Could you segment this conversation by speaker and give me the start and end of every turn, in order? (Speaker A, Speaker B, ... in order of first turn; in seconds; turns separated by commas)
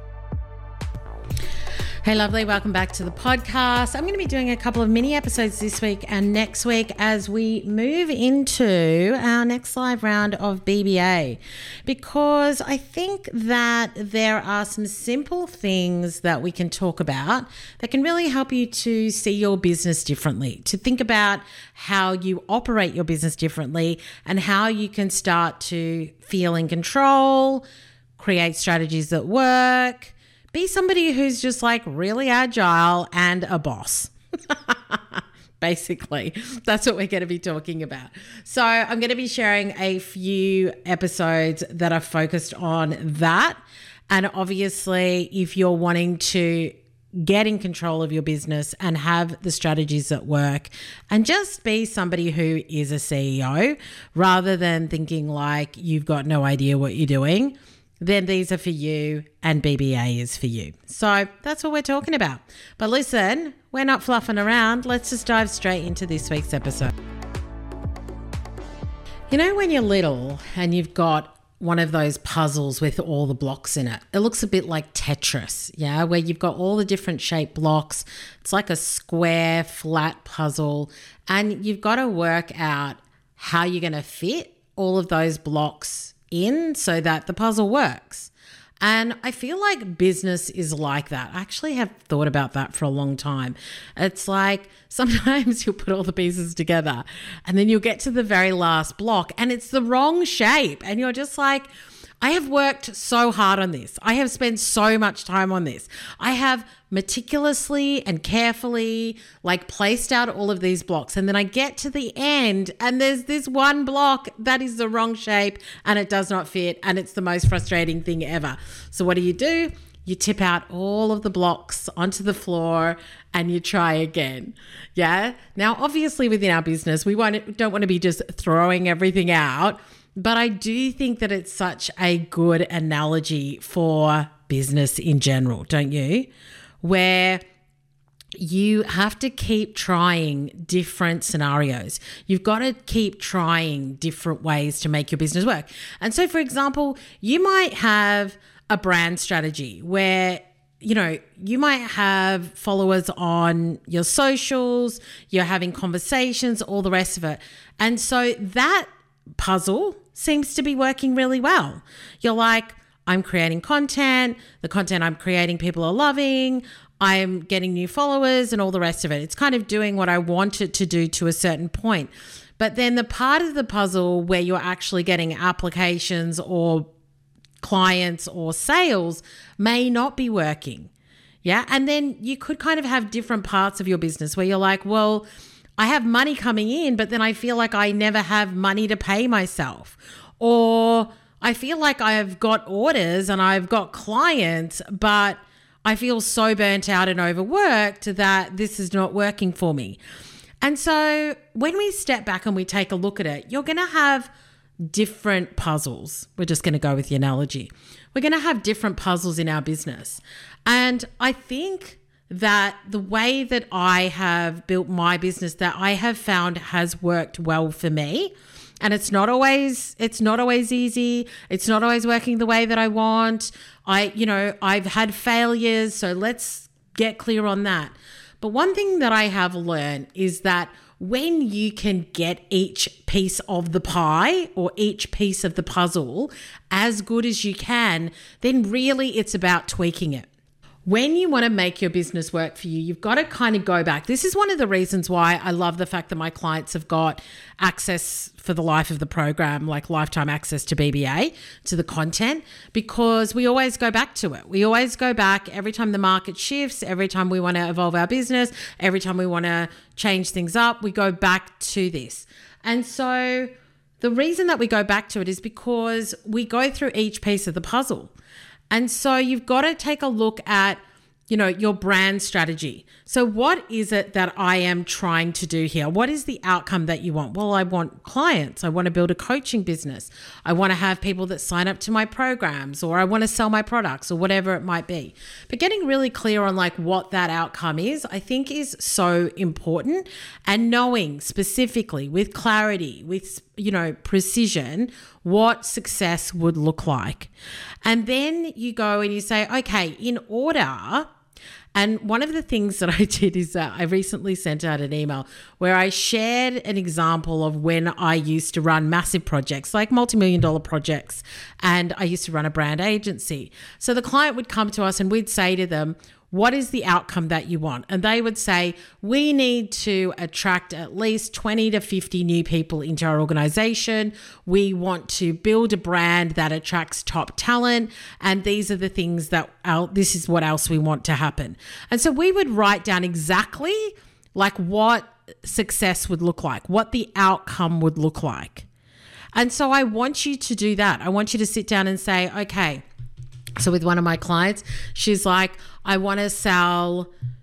Speaker A: 2.0-27.6, Speaker A: 28.2-43.6, Speaker A: 44.1-66.9, Speaker A: 69.3-88.3, Speaker A: 88.8-101.7, Speaker A: 102.2-136.3, Speaker A: 136.8-137.4, Speaker A: 138.4-176.9, Speaker A: 177.6-180.9, Speaker A: 181.4-185.3, Speaker A: 185.8-200.0, Speaker A: 200.6-204.3, Speaker A: 204.9-240.3, Speaker A: 240.8-268.1, Speaker A: 268.7-270.8, Speaker A: 271.3-297.3, Speaker A: 297.8-301.1, Speaker A: 301.7-338.7, Speaker A: 339.3-342.8, Speaker A: 343.6-347.1